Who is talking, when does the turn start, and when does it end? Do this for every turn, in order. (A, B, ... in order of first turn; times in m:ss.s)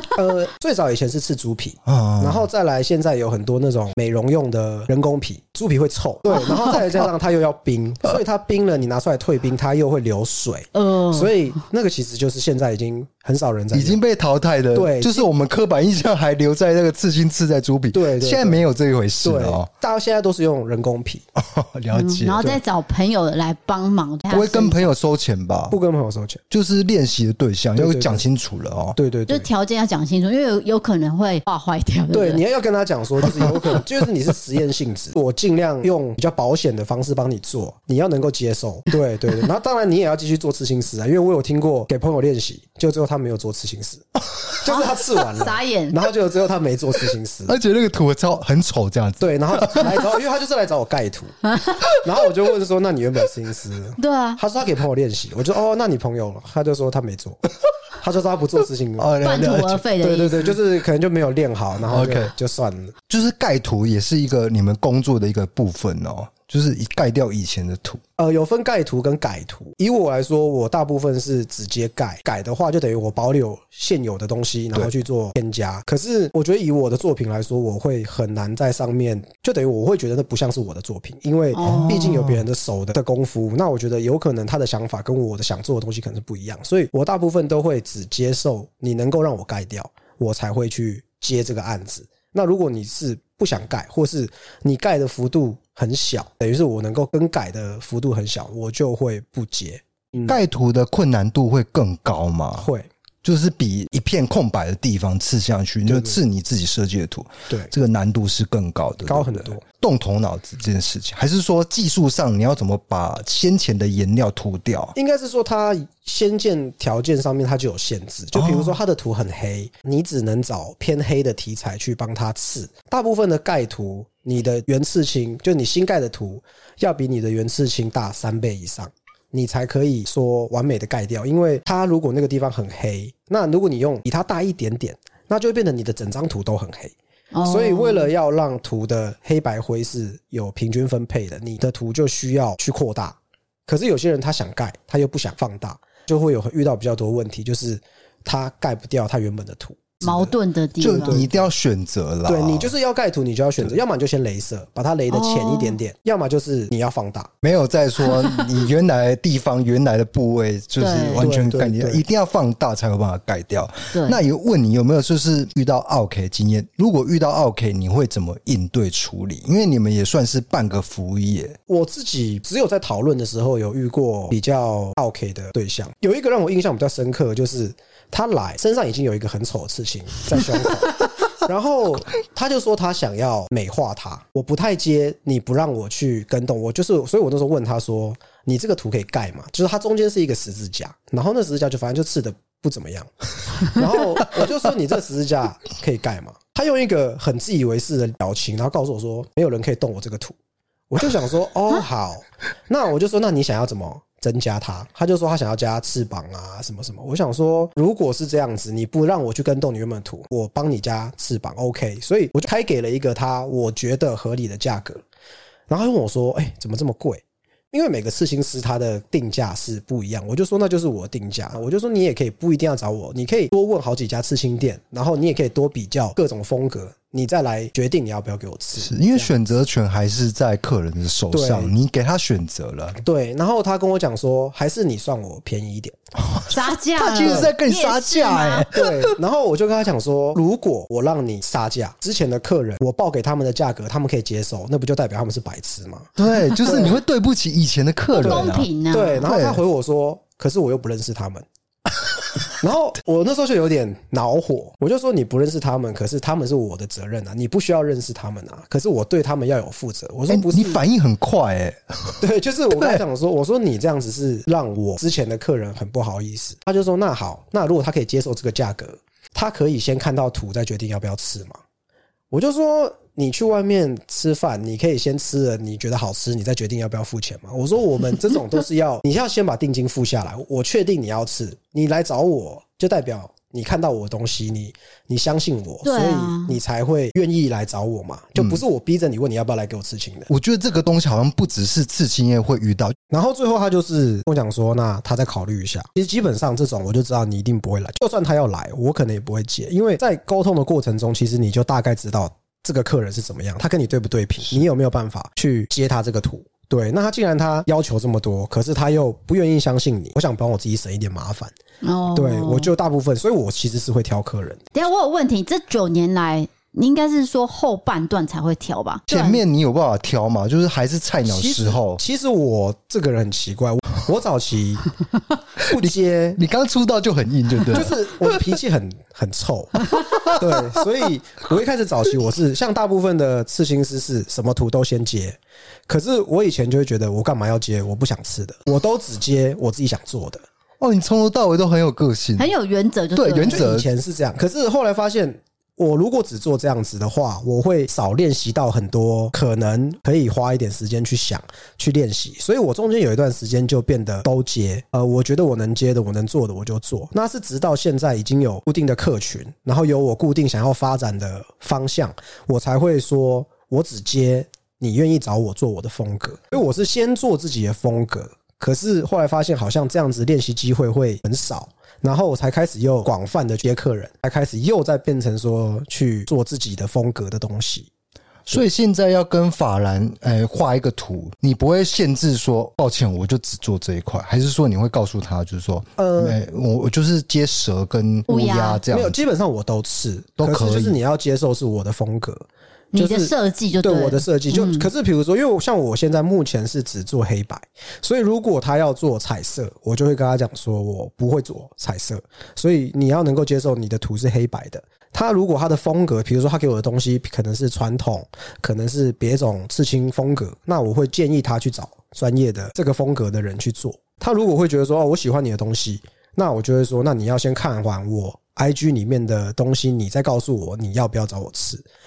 0:00.1-0:14.0 A
0:01.8-0:02.5 B
0:06.5-0:06.9 B
0:10.7-0:11.3 C
0:13.7-0:19.7 B
0:14.7-0:15.3 A
0:17.9-0:18.6 A
0:19.2-0:21.2 A
0:21.4-0:22.4 B
0:21.9-0:24.9 C
0:24.3-0:25.8 B
0:25.7-0:26.4 A
0:26.5-0:29.0 B
0:27.8-0:28.2 A
0:29.0-0:29.5 A
0:29.3-0:32.4 C
0:32.1-0:47.5 A
0:44.6-0:46.0 C
0:47.5-0:49.9 B
0:49.2-0:57.4 A
0:54.0-0:54.4 C
0:58.0-0:59.2 A
0:59.0-0:59.8 B
0:59.2-1:00.5 C
1:00.0-1:02.9 A
1:01.9-1:02.3 B
1:03.1-1:08.0 B
1:08.2-1:40.4 A
1:21.5-1:22.2 C
1:21.6-1:22.4 B
1:40.2-1:42.7 B
1:42.6-1:42.9 A
1:43.2-1:54.9 B
1:45.9-1:46.2 A
1:49.0-1:49.6 A
1:54.9-2:16.9 A
1:58.3-1:58.8 B
2:17.3-2:18.1 C
2:17.4-2:30.3 A
2:30.0-2:31.3 C
2:30.8-2:32.7 B
2:31.0-2:31.4 A
2:32.2-2:37.3 A
2:35.1-2:35.8 C
2:37.4-2:51.6 B
2:40.8-2:41.2 C
2:41.2-2:42.0 A
2:43.9-2:44.2 C
2:51.7-3:20.3 A
3:20.9-3:35.0 A
3:35.7-3:49.3 A
3:48.8-3:53.0 B
3:51.3-3:51.7 A
3:53.0-3:56.0 A
3:56.2-3:59.1 B
3:56.5-3:58.7 C
3:57.2-3:57.5 A
3:58.7-4:07.0 A
4:06.2-4:08.7 B
4:08.1-4:09.3 C
4:08.2-4:11.4 A
4:09.2-4:09.6 B
4:12.6-4:20.8 A
4:20.3-4:22.2 B
4:22.2-4:31.6 A
4:22.7-4:23.0 B
4:32.3-4:50.3 A
4:45.8-4:46.6 C
4:50.3-4:53.0 B
4:53.1-5:11.5 A
5:11.8-5:12.7 C
5:12.1-5:14.7 A
5:14.7-5:19.4 C
5:19.1-5:22.0 B
5:21.2-5:24.9 A
5:25.6-5:27.9 B
5:25.6-5:26.4 A
5:27.7-5:40.4 A
5:29.9-5:30.8 B
5:40.8-5:42.5 B
5:42.4-5:43.7 C
5:43.2-5:43.8 B
5:43.4-6:17.9 A
6:18.5-6:29.2 B
6:26.0-6:26.4 A
6:28.3-6:28.8 C
6:28.9-7:01.8 A
6:30.4-6:31.0 B
6:32.9-6:34.9 C